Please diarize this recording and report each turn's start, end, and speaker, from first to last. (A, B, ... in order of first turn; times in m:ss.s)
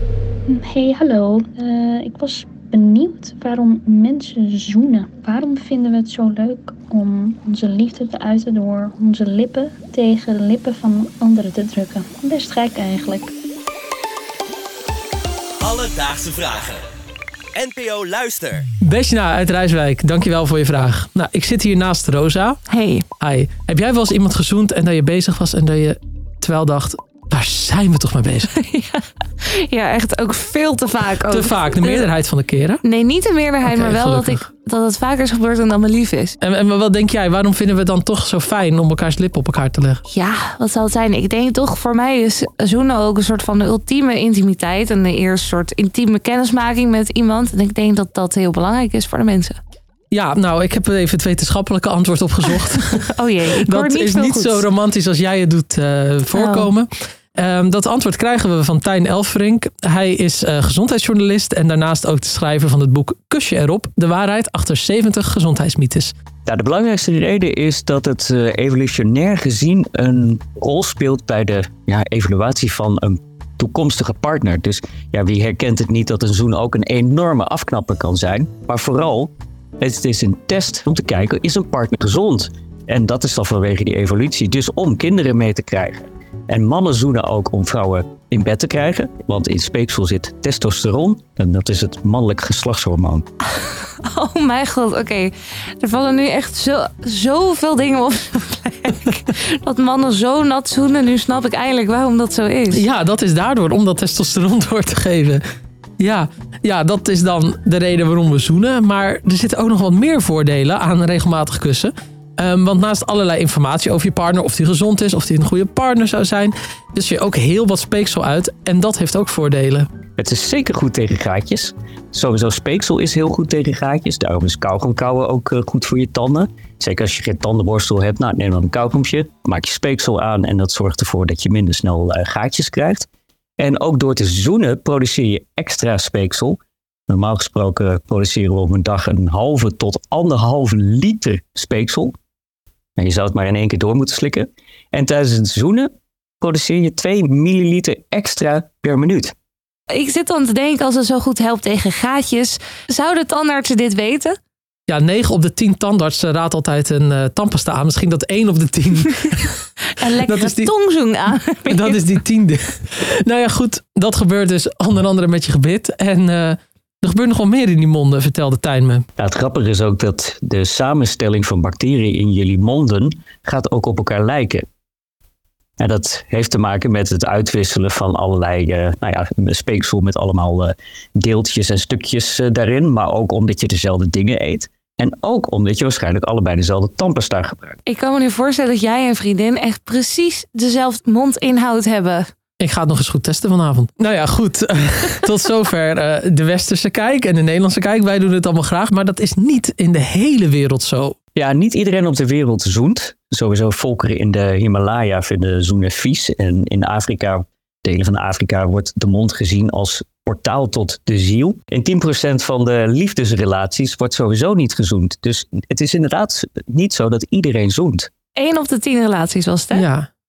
0:00.5-0:13.3 A
0:15.6-0:16.8 B
0:17.5-0:18.7 B
0:18.8-0:22.6 C
0:22.7-0:23.0 D
0:23.2-0:28.5 C
0:28.5-0:32.1 D
0:31.3-0:32.8 C
0:32.8-0:36.4 D
0:33.6-0:34.4 C
0:36.4-0:40.0 C
0:40.1-0:49.6 D
0:50.1-0:53.1 C
0:52.9-0:54.6 D
0:53.6-1:06.1 C
0:56.3-0:56.7 D
1:06.4-1:33.2 E
1:33.6-1:42.8 D
1:42.7-1:45.4 C
1:46.0-1:59.9 C
2:00.2-2:13.1 E
2:13.6-2:16.6 E
2:17.1-2:22.1 E
2:23.0-2:25.9 E
2:26.4-2:29.3 E
2:29.9-2:34.4 D
2:34.9-2:39.6 C
2:40.0-2:42.0 D
2:40.2-2:40.7 C
2:41.7-2:49.0 C
2:49.2-2:54.6 E
2:55.8-3:07.8 E
3:07.8-3:12.3 D
3:12.6-3:21.2 C
3:21.3-3:38.1 E
3:38.3-3:39.8 D
3:39.7-3:40.1 C